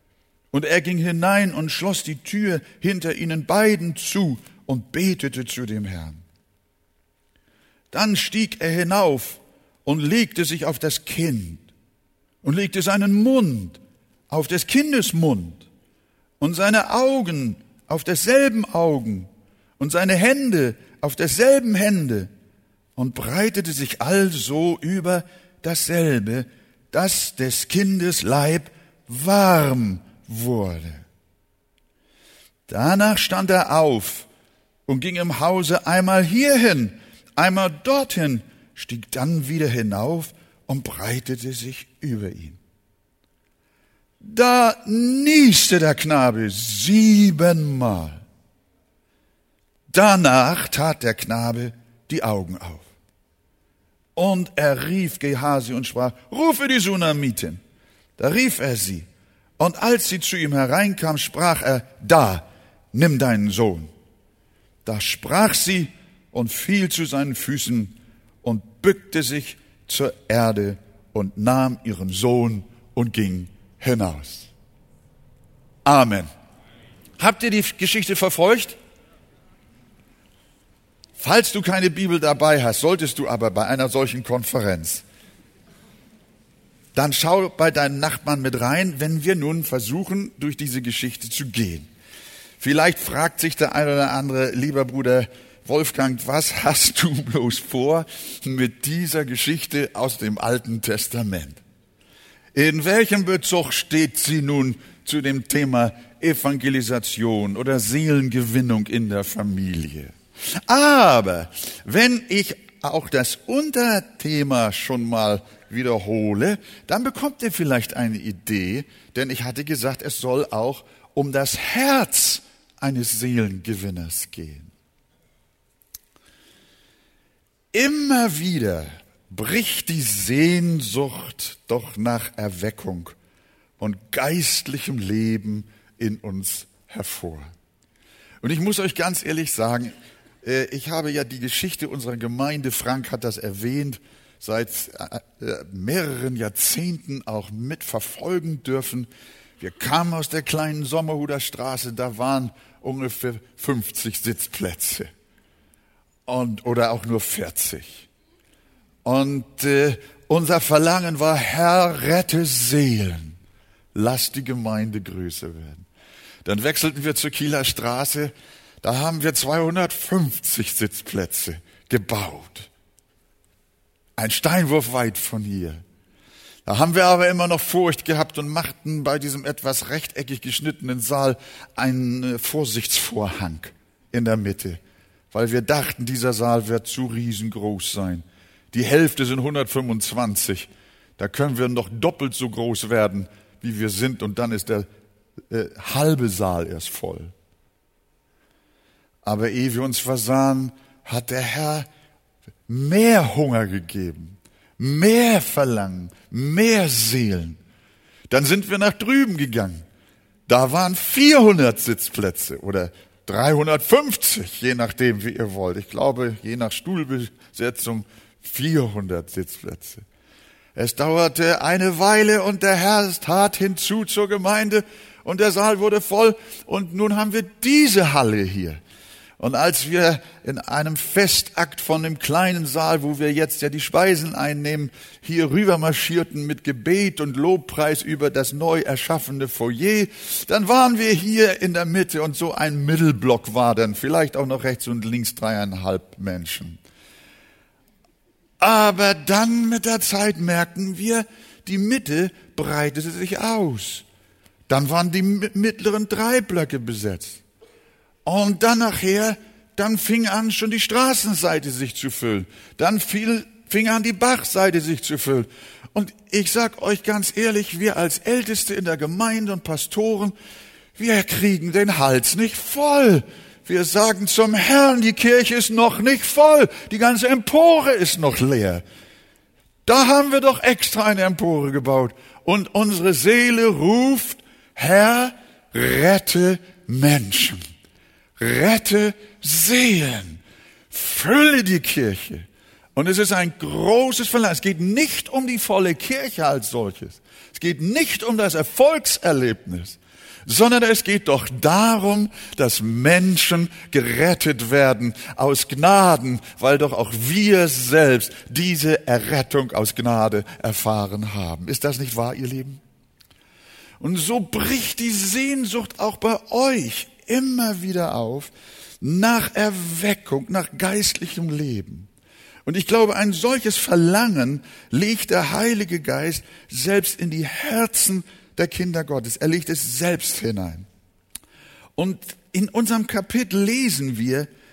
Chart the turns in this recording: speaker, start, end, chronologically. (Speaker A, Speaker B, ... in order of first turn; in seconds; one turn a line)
Speaker A: 0.5-6.2
Speaker A: 7.9-11.6
Speaker A: 12.4-15.7
Speaker A: 16.4-22.3
Speaker A: 23.0-31.1
Speaker A: 32.7-34.3
Speaker A: 34.9-42.6
Speaker A: 44.2-48.2
Speaker A: 49.9-52.9
Speaker A: 54.2-57.6
Speaker A: 58.2-59.1
Speaker A: 59.6-63.9
Speaker A: 64.8-74.5
Speaker A: 75.8-76.3
Speaker A: 77.2-78.8
Speaker A: 81.2-85.0
Speaker A: 87.0-91.9
Speaker A: 92.6-101.6
Speaker A: 102.5-110.2
Speaker A: 110.7-124.7
Speaker A: 127.7-133.2
Speaker A: 133.8-137.5
Speaker A: 138.4-139.9
Speaker A: 140.4-149.1
Speaker A: 149.6-155.1
Speaker A: 156.3-158.1
Speaker A: 159.1-163.4
Speaker A: 163.9-165.9
Speaker A: 166.4-172.7
Speaker A: 174.2-175.8
Speaker A: 176.7-184.8
Speaker A: 185.3-194.9
Speaker A: 195.5-197.3
Speaker A: 199.2-201.9
Speaker A: 202.7-207.6
Speaker A: 208.3-209.8
Speaker A: 210.5-220.1
Speaker A: 220.8-228.8
Speaker A: 229.4-246.8
Speaker A: 248.6-254.1
Speaker A: 254.7-257.4
Speaker A: 258.3-270.4
Speaker A: 271.0-278.8
Speaker A: 279.9-287.6
Speaker A: 288.4-312.8
Speaker A: 314.0-322.1
Speaker A: 322.7-330.9
Speaker A: 332.0-334.5